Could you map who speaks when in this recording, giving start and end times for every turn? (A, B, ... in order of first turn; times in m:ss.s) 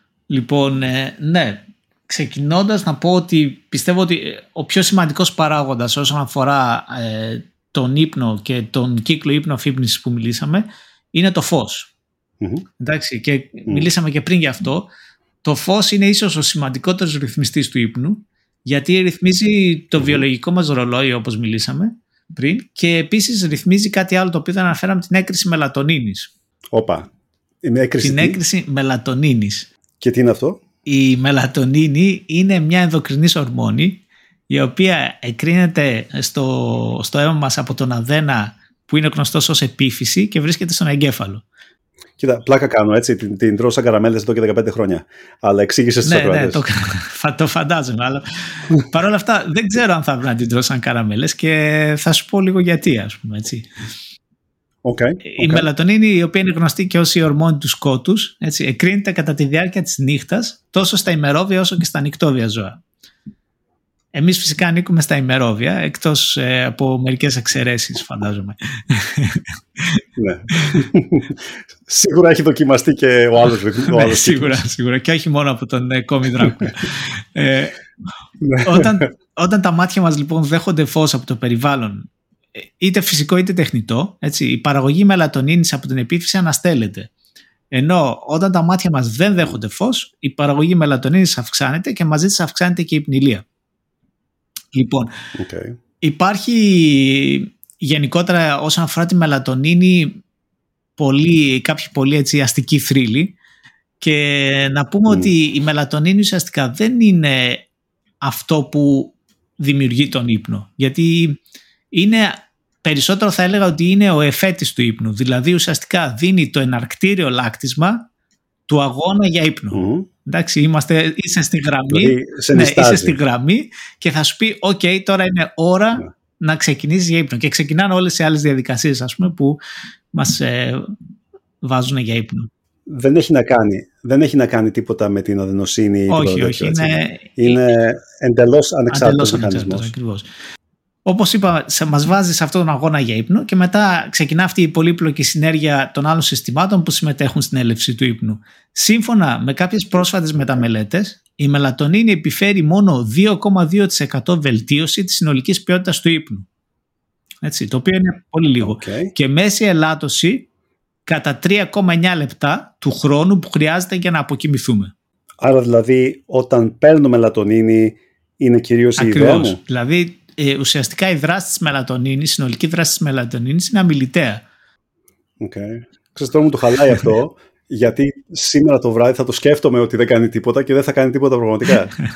0:00.3-0:11.9 A
0:12.4-0:12.6 B
0:12.8-0:14.9 A
0:15.4-0:26.3 A
0:26.7-0:27.1 B
0:27.6-0:28.4 B
0:28.0-0:29.7 A
0:30.0-0:30.6 B
0:30.8-0:41.4 A
0:42.2-0:46.6 B
0:46.0-0:53.7 A
0:54.8-0:55.6 B
0:55.2-1:02.8 A
1:04.1-1:10.8 A
1:10.2-1:14.6 B
1:13.9-1:17.8 A
1:18.4-1:19.0 B
1:18.6-1:27.1 A
1:27.7-1:33.4 A
1:34.7-1:35.1 A
1:35.4-1:35.7 B
1:36.0-1:40.2 A
1:41.0-1:43.4 A
1:44.0-1:47.7 A
1:48.2-1:51.4 A
1:51.9-1:58.1 A
1:58.7-2:09.6 A
1:59.7-2:00.1 B
2:01.9-2:03.1 B
2:10.1-2:10.9 A
2:11.6-2:12.5 A
2:12.9-2:19.9 B
2:16.1-2:17.6 A
2:18.9-2:20.3 A
2:21.0-2:36.5 A
2:37.4-2:40.5 A
2:38.6-2:39.1 B
2:41.0-2:44.9 A
2:45.4-2:49.6 B
2:49.0-2:54.4 A
2:55.4-3:01.9 B